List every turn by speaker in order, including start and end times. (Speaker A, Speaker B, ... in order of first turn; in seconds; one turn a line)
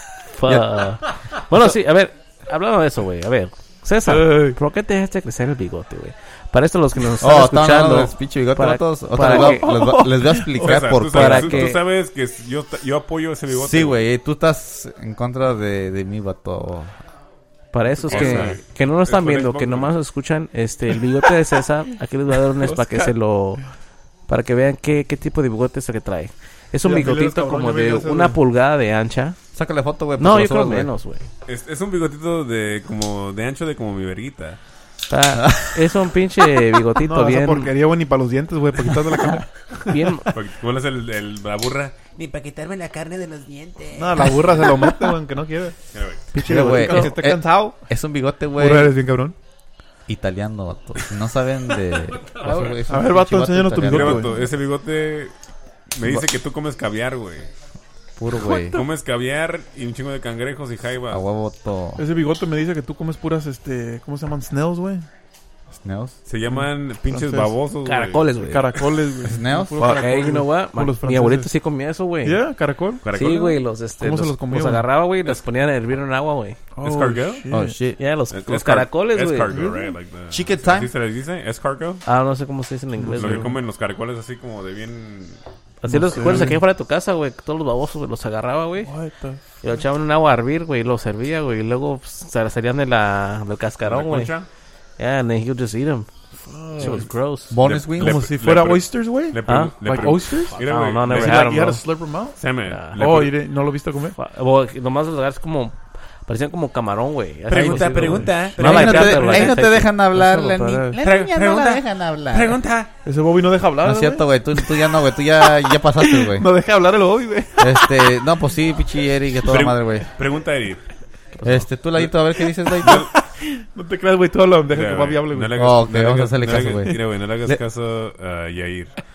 Speaker A: 0.3-9.7
Speaker B: 0.5-0.8
Speaker C: 4.1-4.6
Speaker B: 7.2-11.8
Speaker C: 9.2-10.8
Speaker D: 10.5-14.0
Speaker A: 11.1-11.8
Speaker B: 13.5-17.0
Speaker A: 17.7-23.6
Speaker C: 18.1-18.5
Speaker D: 18.1-19.9
Speaker B: 18.1-18.6
Speaker C: 22.6-23.1
Speaker A: 24.3-29.4
Speaker C: 26.8-28.4
Speaker B: 29.5-30.9
Speaker A: 30.2-31.2
Speaker D: 31.5-34.6
Speaker A: 35.1-37.7
Speaker B: 35.4-35.9
Speaker C: 37.0-40.1
Speaker A: 39.9-40.3
Speaker D: 40.3-42.0
Speaker E: 42.2-44.3
Speaker C: 43.9-45.8
Speaker D: 45.9-46.3
Speaker A: 46.3-47.1
Speaker C: 46.4-47.8
Speaker B: 46.4-49.0
Speaker C: 48.6-49.4
Speaker B: 50.1-54.3
Speaker D: 52.4-52.8
Speaker C: 52.5-54.4
Speaker D: 53.8-55.3
Speaker D: 55.9-57.5
Speaker B: 58.2-58.8
Speaker C: 58.5-58.8
Speaker D: 58.5-61.2
Speaker B: 61.1-62.0
Speaker C: 62.0-65.1
Speaker B: 65.7-66.2
Speaker D: 66.3-68.3
Speaker C: 66.5-67.5
Speaker A: 67.8-68.8
Speaker C: 68.4-71.5
Speaker B: 69.2-69.8
Speaker A: 69.8-72.4
Speaker C: 72.2-73.0
Speaker D: 73.0-73.6
Speaker A: 73.1-76.6
Speaker C: 74.0-74.9
Speaker C: 76.8-77.8
Speaker D: 76.8-77.4
Speaker B: 77.5-78.0
Speaker A: 78.0-79.8
Speaker D: 78.3-82.0
Speaker C: 79.5-79.8
Speaker B: 80.3-80.9
Speaker A: 82.0-83.5
Speaker C: 83.0-83.5
Speaker D: 83.2-85.4
Speaker A: 85.8-88.9
Speaker C: 85.9-86.6
Speaker C: 88.8-89.4
Speaker A: 89.6-94.3
Speaker D: 93.8-94.5
Speaker A: 95.0-96.1
Speaker C: 96.5-97.0
Speaker A: 96.8-97.6
Speaker B: 97.5-98.2
Speaker D: 97.6-101.8
Speaker C: 98.0-102.4
Speaker A: 99.5-99.7
Speaker A: 100.5-101.8
Speaker D: 102.4-103.4
Speaker A: 102.7-103.0
Speaker C: 103.0-104.2
Speaker A: 104.2-110.8
Speaker D: 107.5-109.5
Speaker C: 107.5-108.4
Speaker B: 108.6-112.6
Speaker C: 110.4-111.0
Speaker D: 111.0-112.9
Speaker C: 113.0-114.7
Speaker B: 113.8-116.5
Speaker C: 116.0-118.1
Speaker B: 117.6-120.1
Speaker D: 119.4-120.8
Speaker A: 121.4-121.6
Speaker B: 121.4-123.1
Speaker D: 122.8-123.1
Speaker C: 122.8-125.7
Speaker D: 124.7-129.0
Speaker B: 125.5-127.6